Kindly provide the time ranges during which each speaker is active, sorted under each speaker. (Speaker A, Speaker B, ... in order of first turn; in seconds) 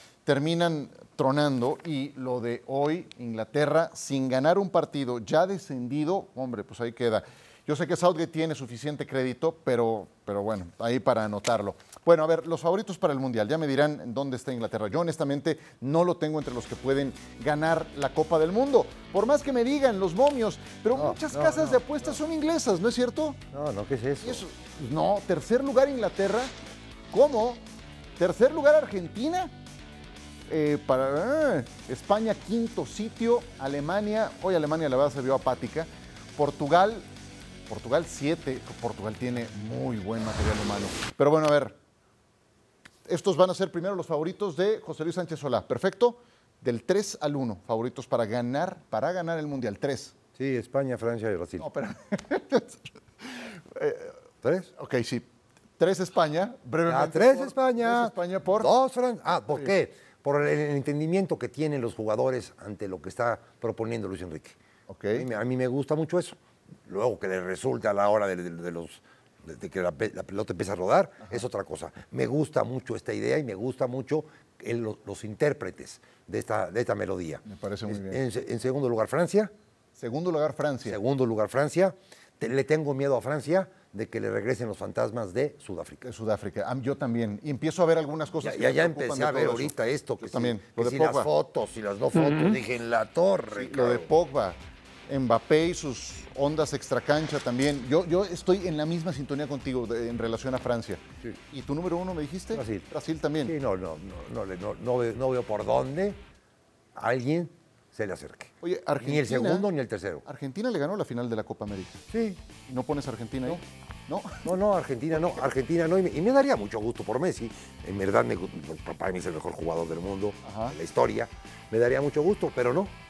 Speaker A: 0.2-23.4, 24.2-26.5, 27.1-27.6, 28.2-29.6, 30.5-37.1, 37.7-41.8, 43.0-50.1, 51.6-54.2, 54.8-55.3, 55.8-58.7, 64.9-65.3, 77.5-78.2, 80.0-81.0, 86.0-91.3, 93.5-103.5, 108.6-109.7, 110.2-112.0, 112.7-114.5, 115.1-115.5, 120.4-120.8
Speaker B: 20.9-21.9, 23.5-24.4, 50.4-51.7, 54.4-54.7, 56.9-64.6, 65.1-66.4, 66.9-79.5, 80.9-86.0, 88.4-94.1, 102.5-102.9, 103.5-106.2, 107.0-110.2, 112.1-112.4, 114.5-122.9